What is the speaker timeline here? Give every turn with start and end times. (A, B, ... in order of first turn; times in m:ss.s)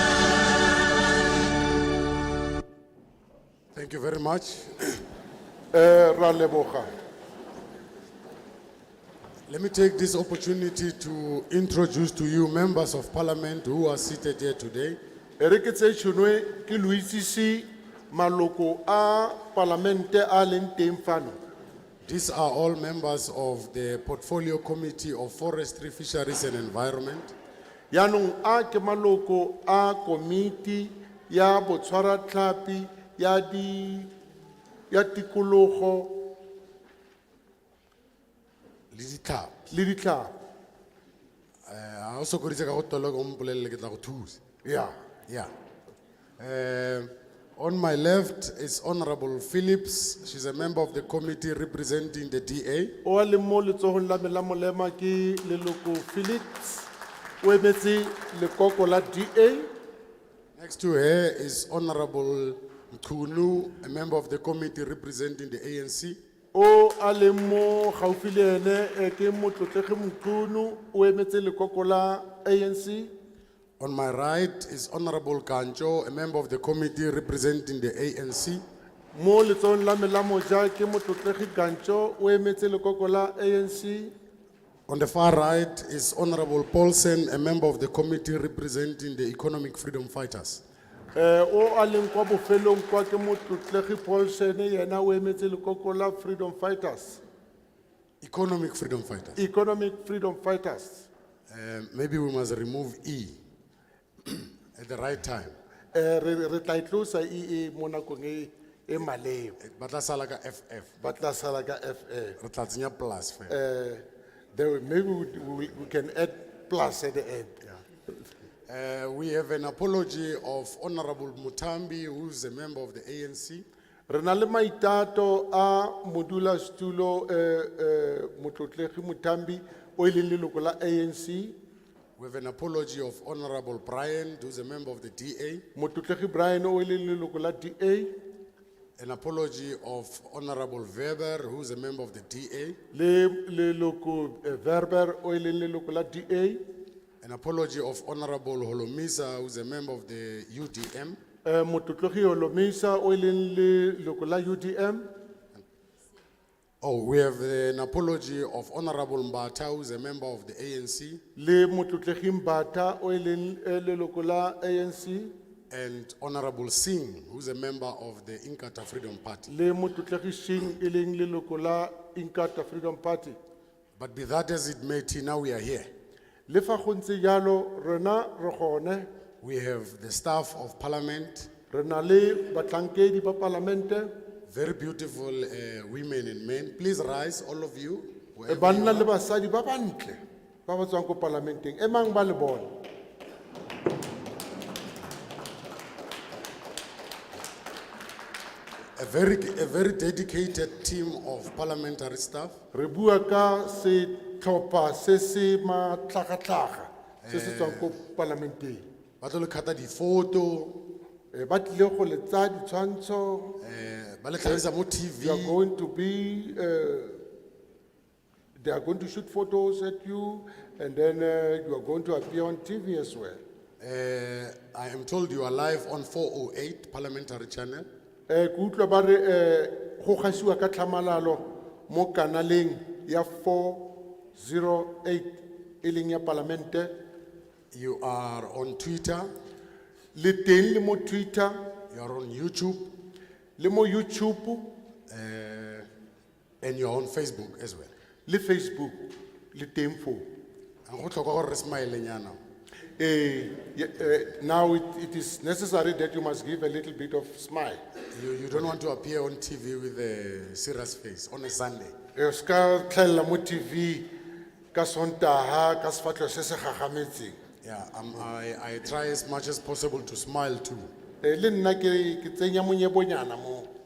0:03.8-0:05.0 A
0:05.7-0:06.9 B
0:09.5-0:15.0 A
0:15.4-0:21.4 B
0:22.0-0:27.3 A
0:27.9-0:34.1 B
0:34.9-0:36.3 B
0:38.9-0:39.7 A
0:39.7-0:40.3 B
0:41.7-0:44.4 A
0:44.6-0:44.9 B
0:46.4-0:53.0 A
0:53.0-0:56.9 B
0:57.4-0:59.7 B
1:00.6-1:06.2 A
1:06.5-1:13.1 B
1:13.8-1:18.6 A
1:19.1-1:24.1 B
1:24.9-1:30.6 A
1:31.2-1:37.2 B
1:38.2-1:39.4 A
1:39.4-1:41.1 B
1:41.5-1:43.4 A
1:44.2-1:45.6 A
1:45.9-1:49.6 B
1:49.6-1:50.9 A
1:51.0-1:52.4 B
1:52.4-1:53.6 A
1:53.5-1:57.7 B
1:58.7-2:03.6 A
2:04.1-2:11.6 B
2:12.2-2:15.6 A
2:15.8-2:18.2 B
2:19.0-2:22.8 A
2:22.9-2:26.6 B
2:27.2-2:31.2 A
2:31.4-2:35.1 B
2:36.8-2:41.2 A
2:41.4-2:45.3 B
2:45.7-2:49.5 A
2:49.5-2:53.4 B
2:54.0-2:55.9 A
2:56.5-2:59.1 B
2:59.4-3:01.5 A
3:01.7-3:04.1 B
3:04.5-3:09.1 A
3:08.5-3:12.7 B
3:19.0-3:22.6 A
3:22.7-3:28.8 B
3:27.2-3:27.9 A
3:29.2-3:30.9 A
3:31.3-3:33.6 B
3:33.6-3:35.6 A
3:35.2-3:37.2 B
3:38.6-3:43.4 B
3:43.8-3:47.9 A
3:48.3-3:56.9 B
3:57.7-3:59.3 A
4:00.2-4:01.6 B
4:01.9-4:02.9 A
4:03.6-4:04.7 B
4:05.1-4:05.9 A
4:06.6-4:07.9 A
4:08.3-4:10.3 B
4:10.8-4:12.4 A
4:13.0-4:17.8 B
4:18.1-4:21.9 A
4:22.2-4:24.1 B
4:24.7-4:27.4 B
4:27.6-4:30.9 A
4:31.2-4:33.7 B